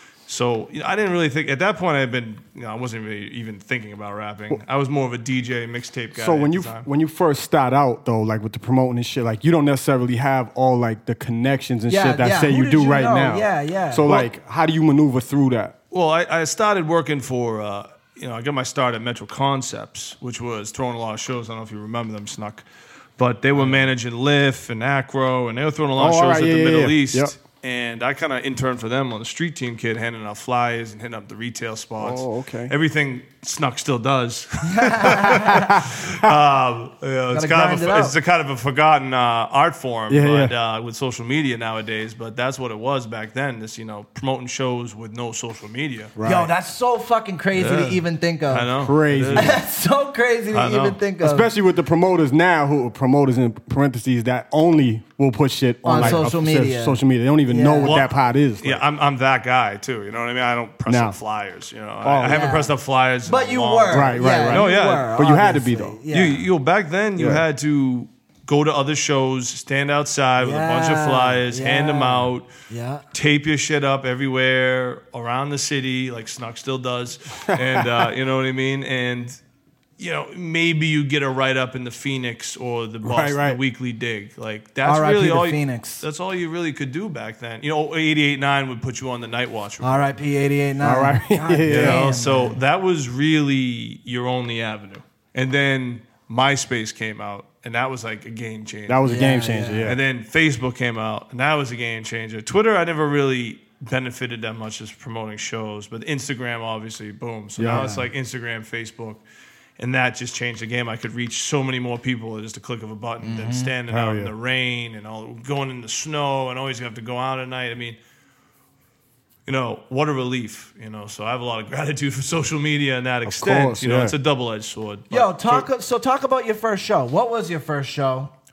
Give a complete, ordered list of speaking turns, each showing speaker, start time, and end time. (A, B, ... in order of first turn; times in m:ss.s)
0:00.3-0:06.9 A
0:06.2-0:15.7 B
0:11.9-0:14.2 C
0:15.9-0:22.6 A
0:23.2-0:46.1 A
0:23.6-0:23.8 B
0:26.0-0:27.3 B
0:32.0-0:32.7 B
0:34.6-0:35.8 C
0:35.5-0:36.0 B
0:37.3-0:38.1 C
0:40.1-0:40.5 B
0:46.2-0:46.5 B
0:46.2-0:48.7 C
0:47.5-0:49.6 A
0:48.8-0:49.6 B
0:49.3-0:51.5 C
0:50.5-0:51.0 A
0:51.2-0:58.8 B
0:55.8-0:58.0 C
0:55.9-0:56.2 A
0:57.8-1:05.1 A
1:00.9-1:01.2 B
1:02.0-1:02.4 B
1:02.2-1:02.7 C
1:03.2-1:06.4 C
1:03.9-1:06.0 B
1:06.1-1:12.5 A
1:07.2-1:07.4 B
1:10.4-1:13.0 C
1:13.1-1:19.4 A
1:17.4-1:18.1 B
1:20.0-1:30.1 A
1:23.0-1:23.6 B
1:24.8-1:26.0 C
1:29.8-1:32.6 C
1:30.8-1:32.0 B
1:31.7-1:39.1 A
1:38.9-1:40.0 B
1:39.0-1:39.9 C
1:39.8-1:49.2 A
1:47.6-1:47.9 B
1:47.7-1:48.0 C
1:49.8-1:58.0 A
1:53.2-1:53.7 C
1:53.9-1:54.3 B
1:59.4-2:05.6 A
2:03.2-2:04.1 B
2:05.1-2:08.3 C